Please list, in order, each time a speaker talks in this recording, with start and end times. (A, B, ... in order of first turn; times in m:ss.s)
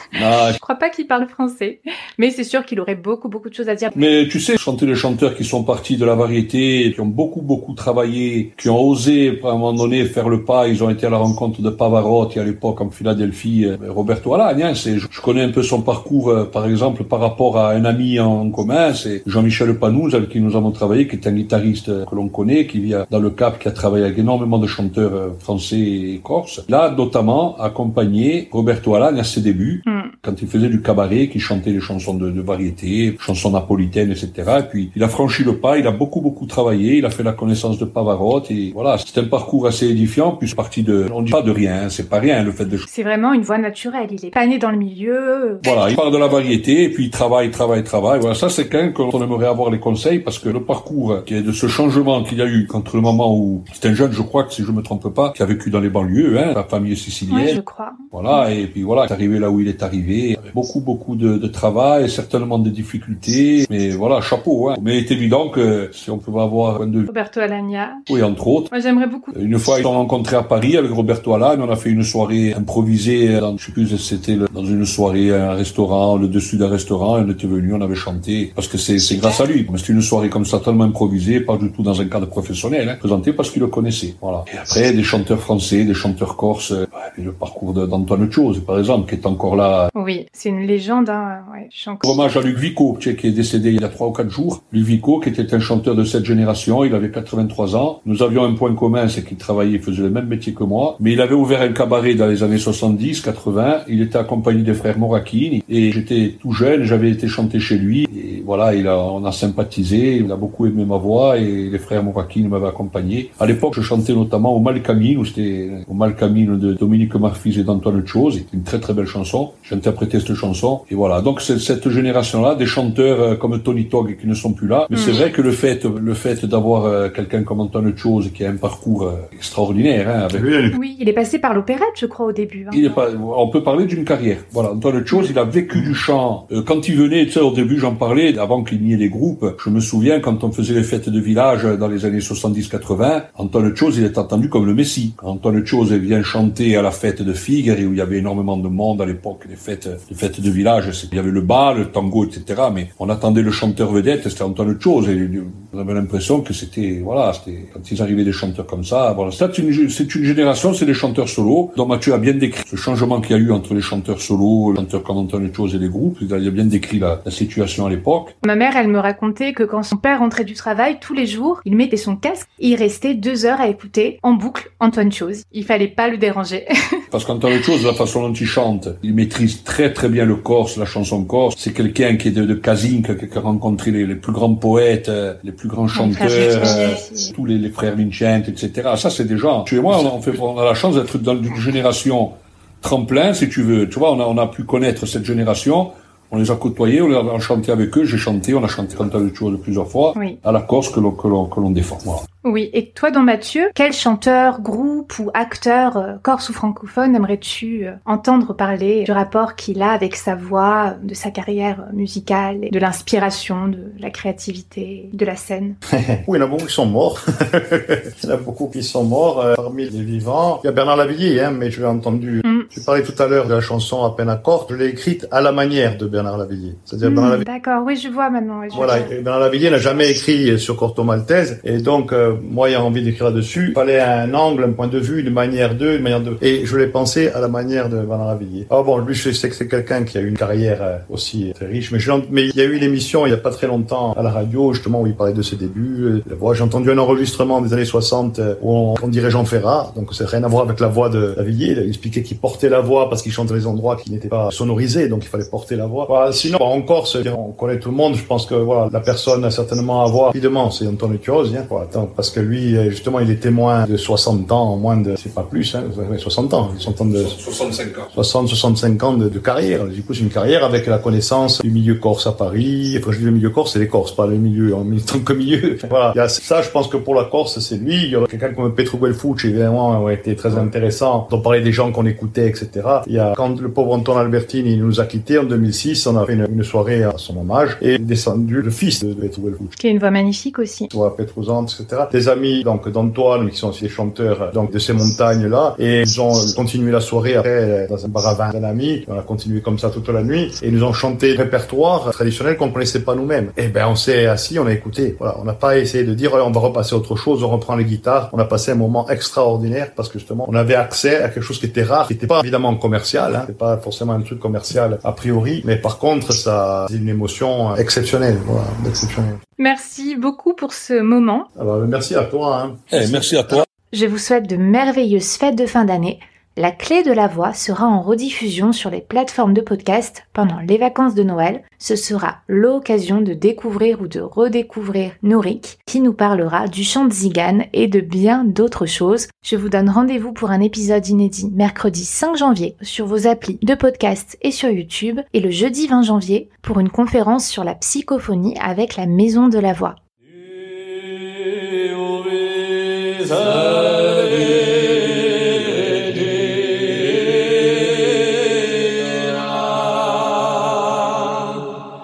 0:00.1-0:00.6 A
0:00.4-0:03.9 B
0:03.9-0:42.8 A
0:29.9-0:30.1 B
0:42.9-0:45.7 B
0:45.6-0:57.6 A
0:57.3-0:58.0 B
0:58.1-1:07.1 A
1:07.1-1:08.0 B
1:08.1-1:08.7 A
1:08.7-1:09.3 B
1:09.3-1:29.9 A
1:29.9-1:32.0 B
1:32.0-2:10.5 A
2:04.9-2:05.2 B
2:10.3-2:10.8 C
2:10.7-2:13.0 B
2:12.7-2:48.3 A
2:48.4-2:57.0 B
2:57.1-3:22.2 A
3:05.9-3:07.3 B
3:22.4-3:35.8 B
3:35.9-3:47.5 C
3:47.0-3:49.1 B
3:48.7-4:27.4 C
4:27.2-4:28.1 A
4:28.1-4:49.7 C
4:49.8-4:50.9 B
4:50.9-5:19.4 C
5:19.6-5:21.5 B
5:21.5-5:23.2 C
5:22.9-5:23.6 A
5:23.9-5:50.0 B
5:53.1-5:56.8 A